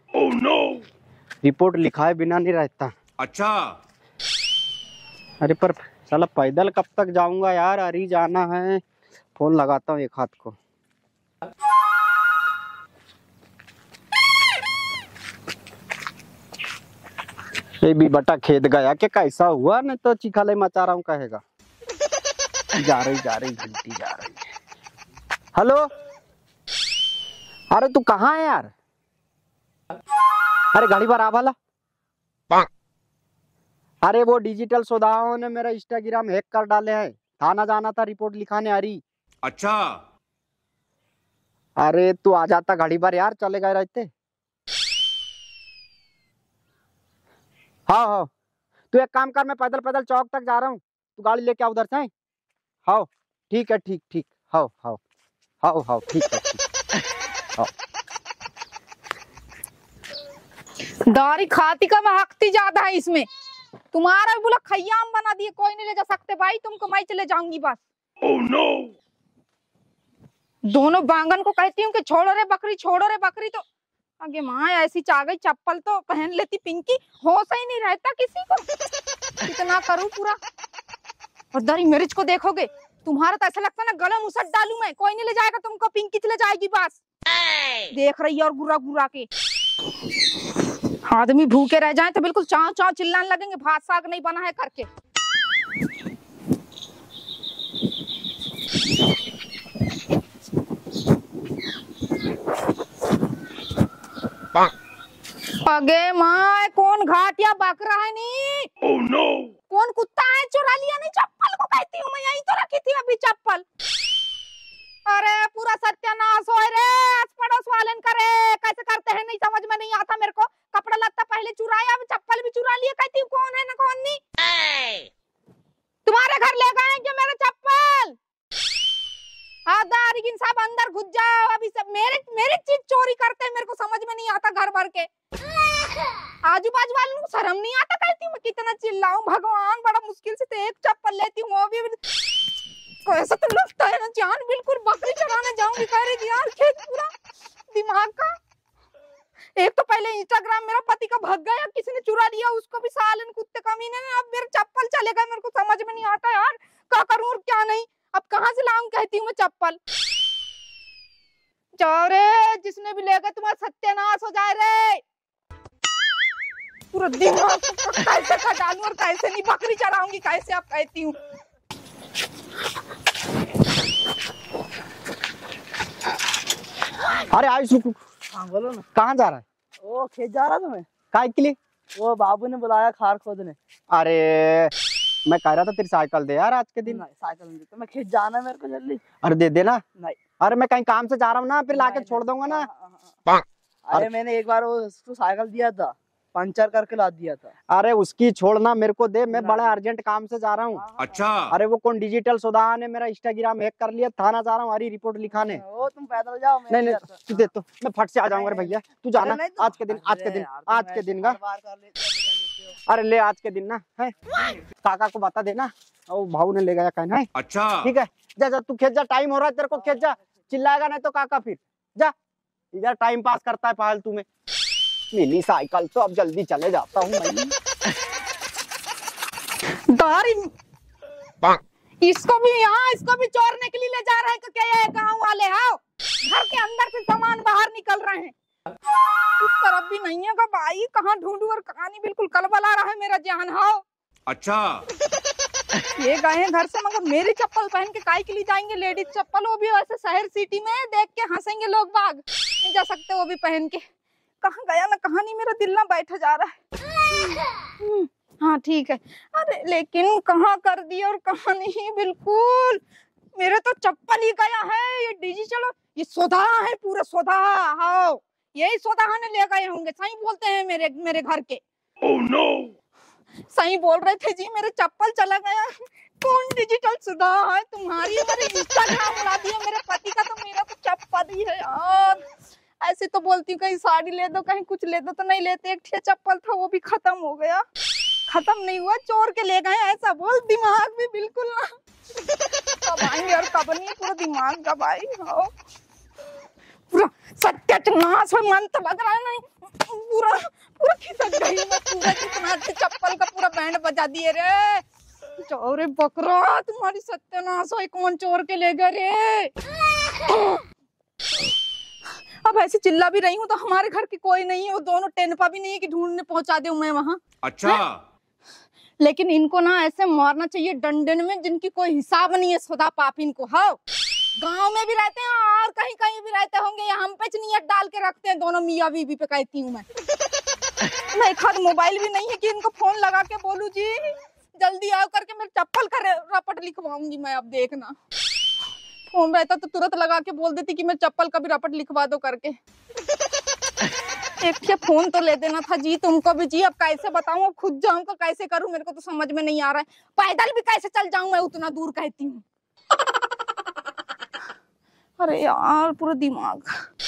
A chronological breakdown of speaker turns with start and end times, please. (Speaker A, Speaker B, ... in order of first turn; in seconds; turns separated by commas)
Speaker A: 1.4-2.9, Speaker B: 3.2-3.8, Speaker A: 5.4-8.8, Speaker A: 9.3-10.6, Speaker A: 17.8-21.4, Speaker A: 22.7-24.5, Speaker A: 25.5-25.9, Speaker A: 27.7-28.7, Speaker A: 30.7-31.5, Speaker A: 34.0-39.0, Speaker B: 39.4-40.0, Speaker A: 41.8-44.1, Speaker A: 47.9-48.3, Speaker A: 48.9-52.1, Speaker A: 52.9-55.0, Speaker A: 55.6-56.6, Speaker C: 61.1-63.2, Speaker C: 63.9-67.8, Speaker C: 70.7-73.6, Speaker C: 74.2-78.7, Speaker C: 79.4-80.4, Speaker C: 81.5-87.0, Speaker C: 87.9-89.3, Speaker C: 91.0-94.9, Speaker C: 105.6-108.7, Speaker C: 109.7-113.6, Speaker C: 115.0-124.2, Speaker C: 126.0-128.2, Speaker C: 129.7-135.1, Speaker C: 136.4-142.0, Speaker C: 143.0-147.1, Speaker C: 147.7-148.3, Speaker C: 149.6-159.8, Speaker C: 161.7-165.0, Speaker C: 166.9-171.2, Speaker A: 177.2-178.0, Speaker D: 178.3-178.8, Speaker A: 178.9-179.4, Speaker D: 179.8-180.9, Speaker A: 181.1-181.6, Speaker D: 181.9-183.6, Speaker A: 183.9-184.7, Speaker A: 185.2-187.0, Speaker D: 186.9-189.0, Speaker A: 189.2-189.8, Speaker A: 190.4-192.7, Speaker D: 191.7-192.9, Speaker D: 193.8-197.5, Speaker A: 197.7-200.8, Speaker D: 199.3-199.7, Speaker D: 200.8-201.2, Speaker B: 201.0-201.5, Speaker A: 201.5-205.6, Speaker D: 205.3-207.4, Speaker A: 206.7-211.4, Speaker D: 208.4-212.7, Speaker A: 212.9-214.2, Speaker A: 214.8-217.3, Speaker B: 217.3-217.9, Speaker A: 217.8-222.1, Speaker A: 222.7-224.2, Speaker A: 225.1-227.5, Speaker C: 229.9-230.5, Speaker C: 231.5-238.3, Speaker C: 239.4-243.8, Speaker B: 244.3-244.8, Speaker C: 245.9-253.8, Speaker C: 254.4-256.6, Speaker C: 257.2-262.8, Speaker C: 263.3-271.6, Speaker C: 273.5-282.2, Speaker C: 282.8-287.6, Speaker C: 288.3-291.7, Speaker C: 292.8-295.5, Speaker C: 296.9-304.8, Speaker C: 305.4-309.5, Speaker C: 310.3-310.6, Speaker C: 312.4-317.8, Speaker B: 317.4-318.0, Speaker C: 319.0-323.8, Speaker C: 324.4-329.9, Speaker C: 331.1-337.9, Speaker C: 339.1-342.6, Speaker C: 344.4-352.4, Speaker C: 355.2-356.8